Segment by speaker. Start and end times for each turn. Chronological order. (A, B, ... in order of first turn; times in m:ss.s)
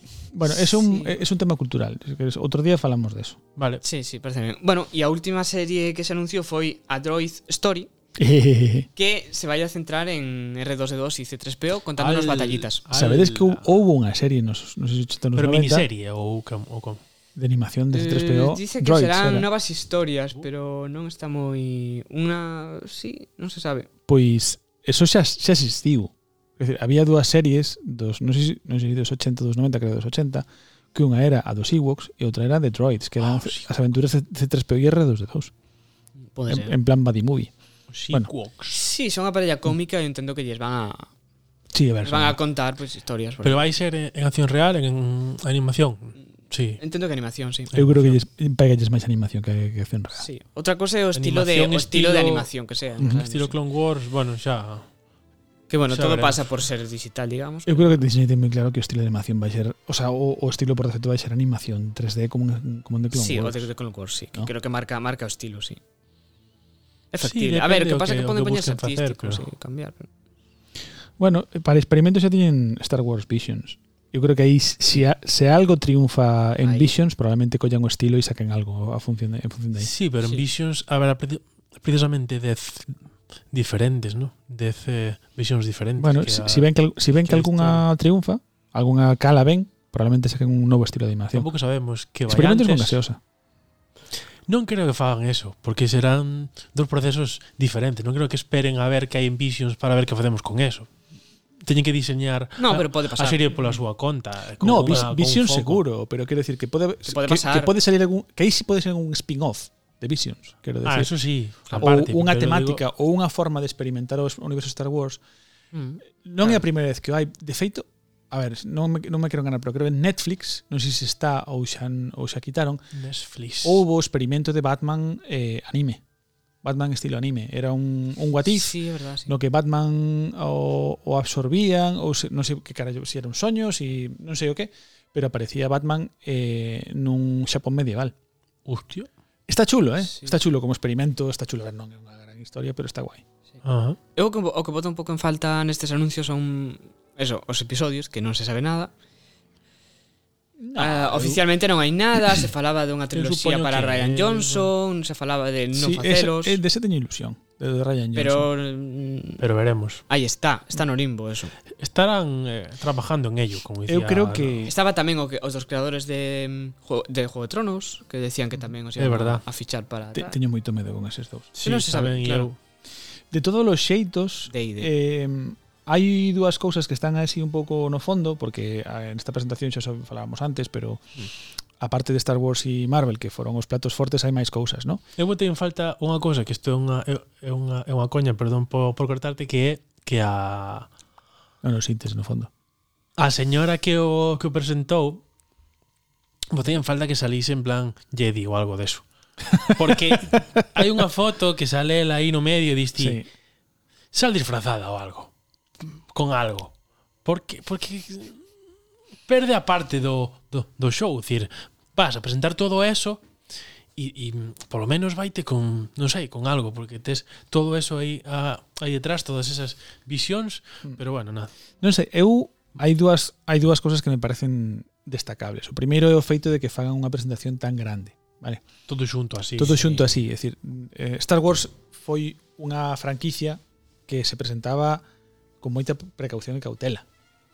0:00.3-0:03.4 A
0:00.5-0:01.1 B
0:03.6-0:03.8 C
0:03.8-0:07.9 B
0:08.2-0:08.9 A
0:09.0-0:12.8 B
0:12.0-0:13.7 C
0:12.9-0:15.9 A
0:15.4-0:17.0 C
0:17.4-0:19.5 A
0:17.9-0:23.9 B
0:24.1-0:35.5 A
0:33.2-0:33.7 C
0:36.3-0:36.7 B
0:36.5-0:37.5 A
0:37.9-0:38.8 C
0:38.7-0:41.1 B
0:41.7-0:42.4 A
0:42.0-0:43.7 B
0:43.4-0:46.8 C
0:46.8-0:47.7 B
0:47.7-0:48.2 C
0:47.7-0:50.2 A
0:50.2-0:53.6 B
0:51.1-0:54.9 C
0:53.0-0:53.2 A
0:55.7-0:58.0 B
0:55.9-0:56.5 C
0:57.7-1:03.7 A
1:03.1-1:05.8 B
1:07.1-1:10.1 B
1:07.2-1:09.4 C
1:11.2-1:19.9 A
1:16.6-1:16.9 B
1:19.8-1:23.0 C
1:23.5-1:27.8 C
1:26.0-1:31.5 A
1:31.3-1:33.0 C
1:32.3-1:33.2 A
1:34.5-1:40.9 C
1:41.6-1:45.8 C
1:42.6-1:43.8 B
1:44.6-1:51.1 A
1:47.0-1:47.7 B
1:50.8-1:52.8 C
1:51.7-1:55.2 A
1:55.7-1:56.6 B
1:56.2-2:02.8 A
2:02.9-2:03.8 C
2:03.6-2:06.0 A
2:06.6-2:18.1 A
2:08.4-2:09.3 B
2:18.6-2:19.1 C
2:19.5-2:23.2 A
2:20.1-2:20.3 B
2:23.6-2:24.0 C
2:24.2-2:28.9 B
2:30.6-2:31.4 A
2:30.8-2:36.6 B
2:33.1-2:34.7 C
2:35.7-2:38.5 A
2:38.1-2:39.4 B
2:39.4-2:40.0 C
2:40.1-2:41.5 B
2:41.7-2:44.7 C
2:43.9-2:44.7 A
2:44.6-2:50.3 B
2:49.0-2:49.4 C
2:50.1-2:51.6 A
2:51.6-2:52.6 C
2:51.6-2:52.5 B
2:53.3-3:01.0 A
2:54.5-2:54.9 B
3:01.8-3:05.0 A
3:05.2-3:10.9 C
3:11.6-3:12.5 A
3:13.2-3:15.2 C
3:16.5-3:19.0 C
3:19.6-3:23.2 C
3:20.1-3:20.4 A
3:23.0-3:23.2 A
3:24.1-3:25.3 C
3:25.8-3:26.7 C
3:27.2-3:28.4 C
3:29.3-3:33.2 C
3:34.0-3:41.5 C
3:41.8-3:48.6 A
3:48.9-3:49.8 C
3:49.6-3:55.0 A
3:49.8-3:50.0 B
3:55.6-3:57.0 A